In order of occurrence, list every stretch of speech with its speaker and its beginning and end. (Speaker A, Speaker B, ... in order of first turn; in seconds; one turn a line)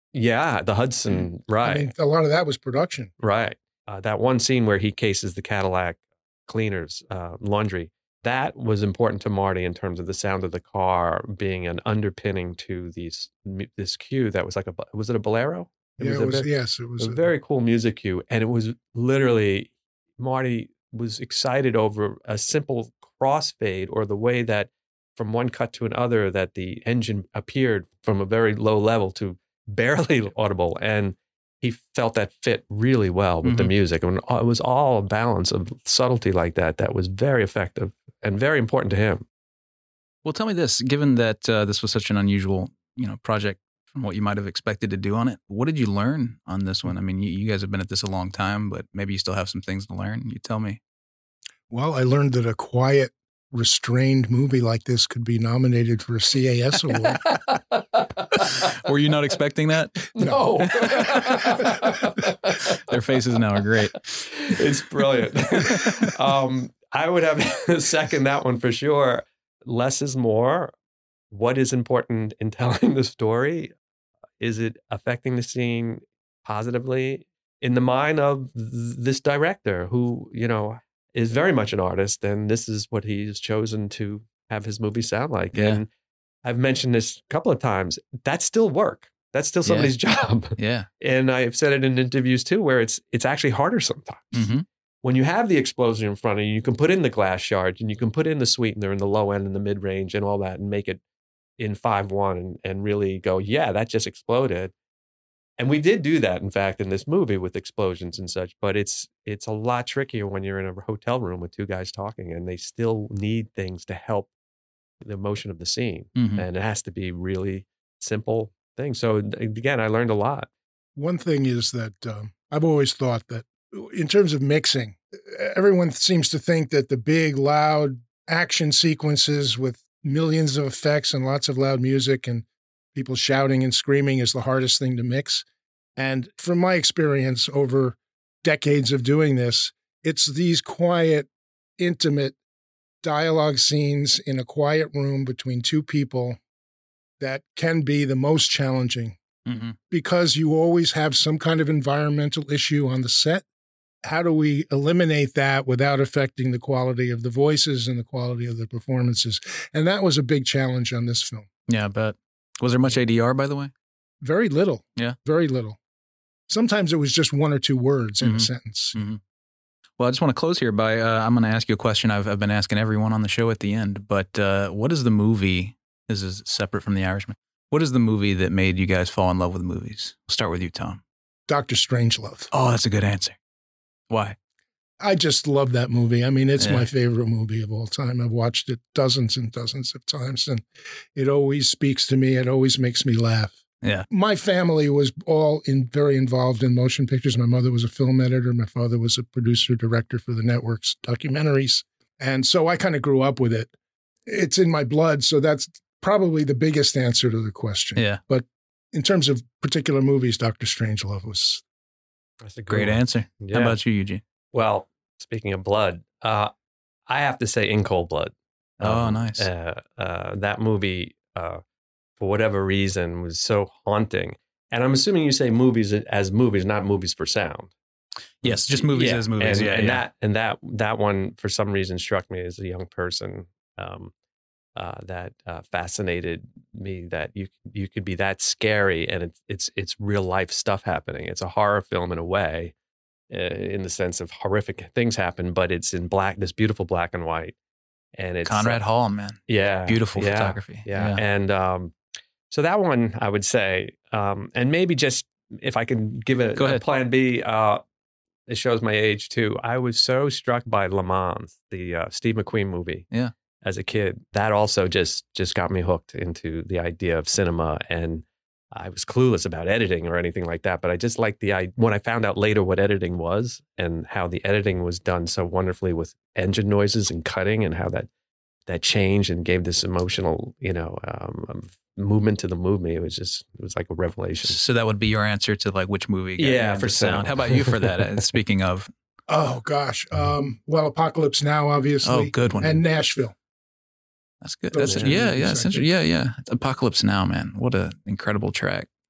Speaker A: 0.1-1.9
Speaker B: 1.1-3.1
Speaker A: 3.2-39.2
Speaker B: 16.0-17.2
Speaker C: 33.4-33.7
Speaker C: 40.2-50.8
Speaker B: 51.7-57.3
Speaker A: 57.1-58.4
Speaker C: 58.6-61.0
Speaker A: 60.1-62.8
Speaker B: 60.2-60.5
Speaker C: 62.9-64.3
Speaker A: 64.3-70.7
Speaker A: 71.3-73.7
Speaker A: 74.4-85.9
Speaker C: 85.5-85.8
Speaker A: 86.4-94.5
Speaker C: 89.6-89.9
Speaker C: 90.6-90.9
Speaker C: 94.3-94.6
Speaker A: 95.0-101.0
Speaker A: 101.6-104.7
Speaker A: 105.6-114.3
Speaker A: 115.0-120.5
Speaker C: 116.2-116.4
Speaker B: 121.0-135.4
Speaker B: 135.9-142.4
Speaker B: 143.0-146.4
Speaker B: 147.2-149.2
Speaker C: 149.4-149.8
Speaker B: 149.9-153.4
Speaker B: 154.0-161.5
Speaker C: 161.7-163.7
Speaker B: 164.2-165.8
Speaker B: 166.5-168.9
Speaker C: 168.2-169.2
Speaker C: 170.0-181.0
Speaker B: 181.5-182.5
Speaker C: 182.5-183.3
Speaker C: 184.1-184.3
Speaker B: 185.0-193.6
Speaker C: 186.6-186.9
Speaker C: 193.8-194.1
Speaker B: 194.1-203.7
Speaker B: 204.2-211.6
Speaker A: 212.4-213.8
Speaker C: 212.7-214.2
Speaker A: 214.5-216.5
Speaker A: 217.1-221.6
Speaker C: 218.8-219.5
Speaker A: 222.2-227.7
Speaker C: 228.4-230.0
Speaker A: 228.4-234.1
Speaker A: 234.8-242.7
Speaker A: 243.3-247.5
Speaker A: 248.2-248.8
Speaker C: 248.4-251.2
Speaker A: 249.5-251.9
Speaker A: 252.5-257.8
Speaker C: 256.6-256.8
Speaker A: 258.5-263.1
Speaker A: 263.6-278.1
Speaker A: 278.7-284.6
Speaker C: 284.4-288.9
Speaker A: 286.4-288.0
Speaker B: 289.3-293.3
Speaker C: 292.0-292.8
Speaker C: 294.4-298.9
Speaker B: 294.7-295.9
Speaker A: 294.9-295.1